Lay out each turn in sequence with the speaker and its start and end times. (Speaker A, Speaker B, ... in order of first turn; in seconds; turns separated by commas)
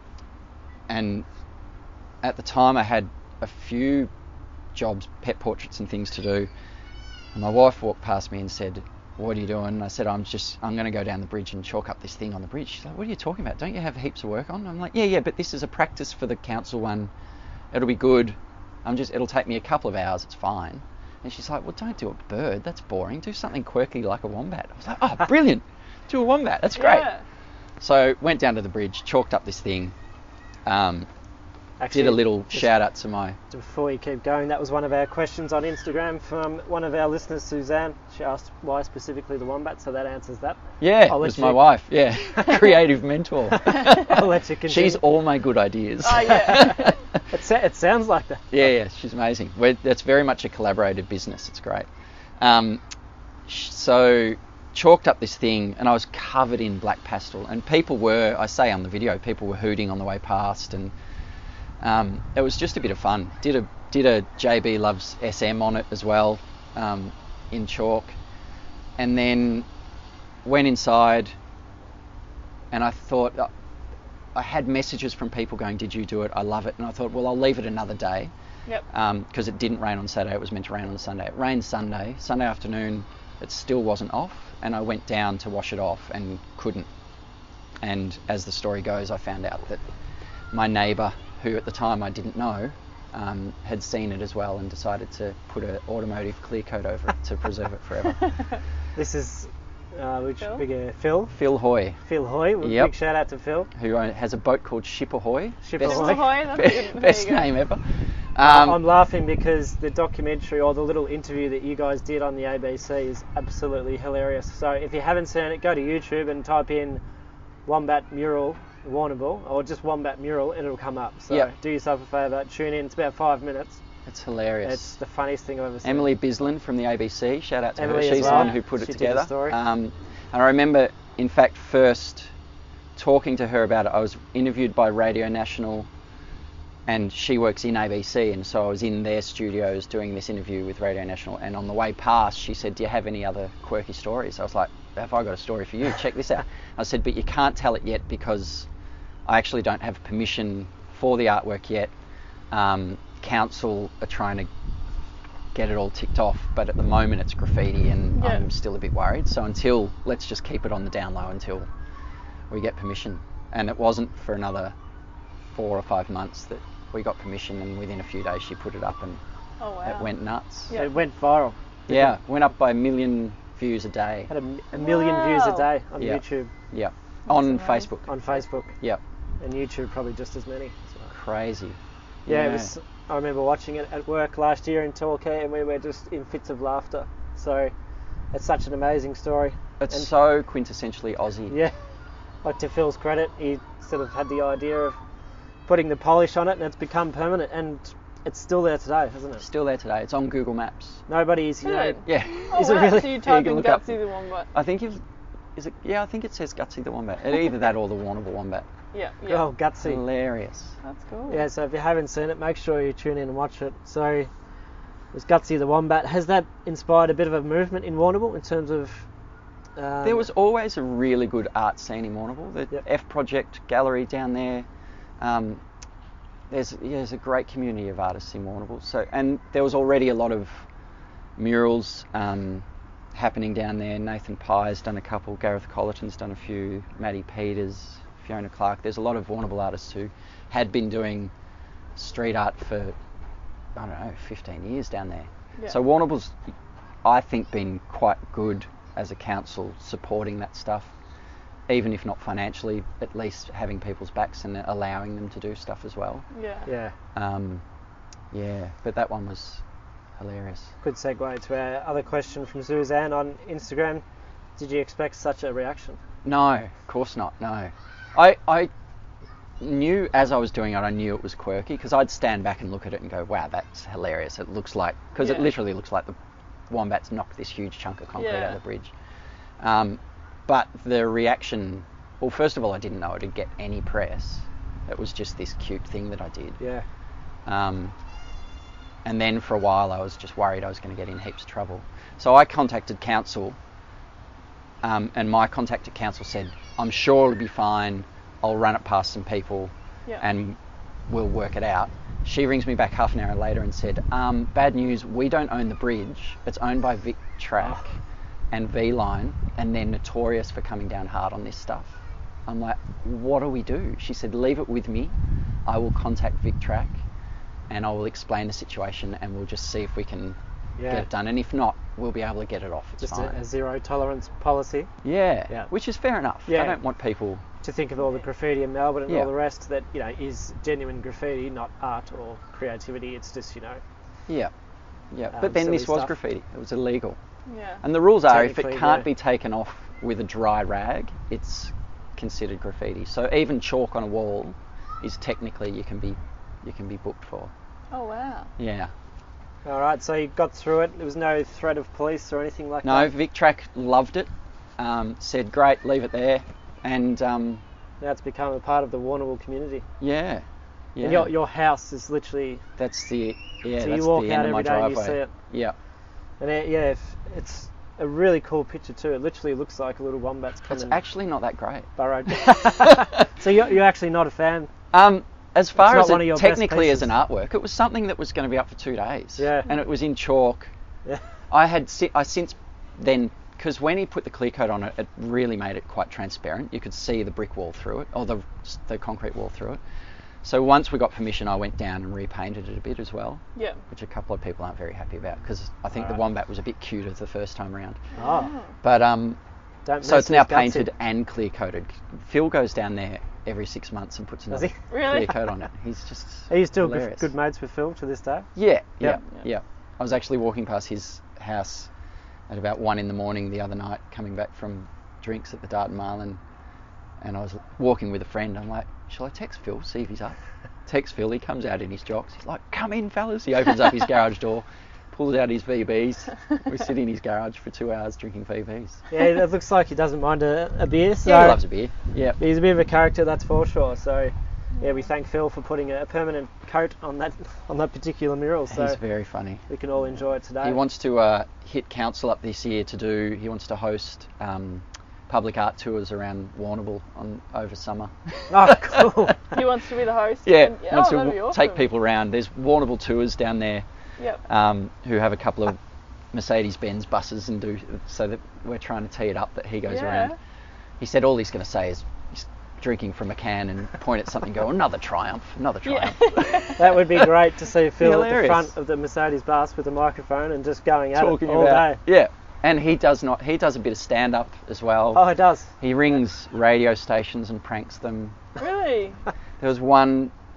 Speaker A: 0.9-1.3, Speaker A: 2.2-4.1, Speaker A: 4.7-6.5, Speaker A: 7.3-17.1, Speaker A: 17.7-27.1, Speaker B: 26.7-27.2, Speaker A: 27.8-29.9, Speaker A: 30.6-31.1, Speaker C: 31.8-32.7, Speaker A: 31.9-33.4, Speaker C: 33.5-42.7, Speaker A: 40.8-47.2, Speaker C: 43.5-45.0, Speaker B: 46.0-46.9, Speaker C: 46.2-46.8, Speaker C: 47.3-48.5, Speaker A: 48.5-51.9, Speaker A: 52.4-52.8, Speaker A: 53.5-60.9, Speaker A: 61.8-68.2, Speaker A: 69.0-69.7, Speaker A: 70.4-71.3, Speaker A: 72.7-73.5, Speaker A: 74.3-78.3, Speaker A: 78.9-86.9, Speaker A: 87.8-89.8, Speaker A: 90.5-98.2, Speaker C: 99.0-101.3, Speaker A: 101.3-102.0, Speaker C: 102.0-103.7, Speaker A: 102.6-102.9, Speaker A: 103.7-107.8, Speaker C: 105.6-106.4, Speaker B: 105.8-107.5, Speaker A: 108.3-108.8, Speaker C: 108.4-117.0, Speaker C: 117.7-123.8, Speaker A: 124.0-124.9, Speaker C: 124.6-126.1, Speaker A: 125.8-132.3, Speaker C: 127.8-129.6, Speaker B: 128.1-128.6, Speaker A: 132.9-135.9, Speaker A: 136.9-148.7, Speaker A: 149.2-151.9, Speaker A: 152.5-154.5, Speaker A: 155.5-161.7, Speaker B: 158.1-158.4, Speaker A: 162.5-164.7, Speaker A: 165.5-169.2, Speaker B: 169.6-170.1, Speaker A: 169.8-170.7, Speaker B: 170.7-170.9, Speaker C: 170.7-172.1, Speaker A: 171.9-174.3, Speaker C: 174.3-176.5, Speaker B: 174.7-175.7, Speaker A: 176.0-178.1, Speaker B: 177.3-177.9, Speaker C: 178.1-178.7, Speaker C: 179.4-181.1, Speaker A: 181.1-182.7, Speaker C: 182.3-187.7, Speaker C: 188.3-190.1, Speaker A: 189.8-191.6, Speaker C: 191.5-191.7, Speaker C: 192.4-195.0, Speaker C: 195.7-199.4, Speaker A: 199.4-201.0, Speaker C: 201.1-203.2, Speaker B: 201.6-204.5, Speaker A: 202.1-204.0, Speaker A: 204.5-205.0, Speaker A: 205.6-208.7, Speaker B: 208.9-209.5, Speaker C: 209.2-210.0, Speaker A: 209.8-210.7, Speaker B: 210.8-211.4, Speaker C: 211.3-214.3, Speaker C: 215.1-219.1, Speaker C: 219.8-220.3, Speaker A: 220.0-224.7, Speaker A: 225.2-225.6, Speaker A: 226.5-230.7, Speaker A: 231.4-241.3, Speaker A: 241.9-242.9, Speaker A: 243.8-246.4, Speaker A: 247.0-250.9, Speaker A: 251.7-256.2, Speaker B: 256.3-256.7, Speaker C: 256.6-256.9, Speaker A: 257.1-257.6, Speaker A: 258.3-259.6, Speaker A: 260.2-260.7, Speaker C: 260.8-264.0, Speaker C: 264.6-266.0, Speaker A: 266.2-268.7, Speaker A: 269.6-276.1, Speaker B: 275.2-275.5, Speaker A: 276.7-278.9, Speaker B: 278.2-278.6, Speaker A: 279.6-286.6, Speaker C: 286.6-286.9, Speaker A: 287.4-287.9, Speaker A: 289.0-293.6, Speaker A: 294.8-307.9, Speaker A: 308.5-315.1, Speaker A: 315.6-317.0, Speaker A: 317.7-323.4, Speaker C: 320.8-321.1, Speaker C: 323.0-324.9, Speaker A: 325.0-327.4, Speaker C: 326.4-326.8, Speaker C: 327.6-333.8, Speaker A: 335.1-337.2, Speaker C: 335.3-336.1, Speaker B: 337.5-337.8, Speaker A: 337.8-347.5, Speaker C: 338.2-339.1, Speaker B: 347.9-348.5, Speaker A: 348.6-348.9, Speaker C: 349.6-353.1, Speaker A: 352.8-357.6, Speaker C: 358.0-359.9, Speaker A: 360.0-361.3, Speaker C: 361.0-362.6, Speaker A: 362.8-365.7, Speaker C: 363.8-365.3, Speaker C: 366.4-371.0, Speaker A: 370.7-373.3, Speaker C: 372.0-374.7, Speaker A: 374.9-380.7, Speaker C: 375.8-377.1, Speaker C: 379.4-379.7, Speaker A: 381.5-389.8, Speaker A: 390.4-398.0, Speaker B: 393.6-393.8, Speaker C: 398.2-398.6, Speaker B: 398.2-398.7, Speaker A: 398.8-399.4, Speaker C: 399.9-400.9, Speaker A: 400.0-407.3, Speaker C: 404.5-404.8, Speaker B: 404.9-405.4, Speaker C: 406.5-408.5, Speaker A: 408.6-411.9, Speaker B: 409.2-409.4, Speaker A: 412.5-416.4, Speaker A: 417.2-429.0, Speaker C: 429.1-431.6, Speaker A: 431.2-432.4, Speaker C: 432.4-439.0, Speaker A: 438.7-439.6, Speaker C: 439.7-440.8, Speaker A: 440.6-449.3, Speaker C: 448.5-449.6, Speaker B: 449.5-451.8, Speaker A: 450.4-453.9, Speaker A: 454.4-455.8, Speaker A: 456.3-460.3, Speaker B: 459.9-460.4, Speaker A: 461.0-467.3, Speaker B: 465.8-466.8, Speaker C: 466.7-472.0, Speaker A: 468.0-468.7, Speaker A: 471.1-475.2, Speaker C: 475.1-475.7, Speaker A: 475.8-478.4, Speaker B: 478.6-479.2, Speaker A: 479.6-480.3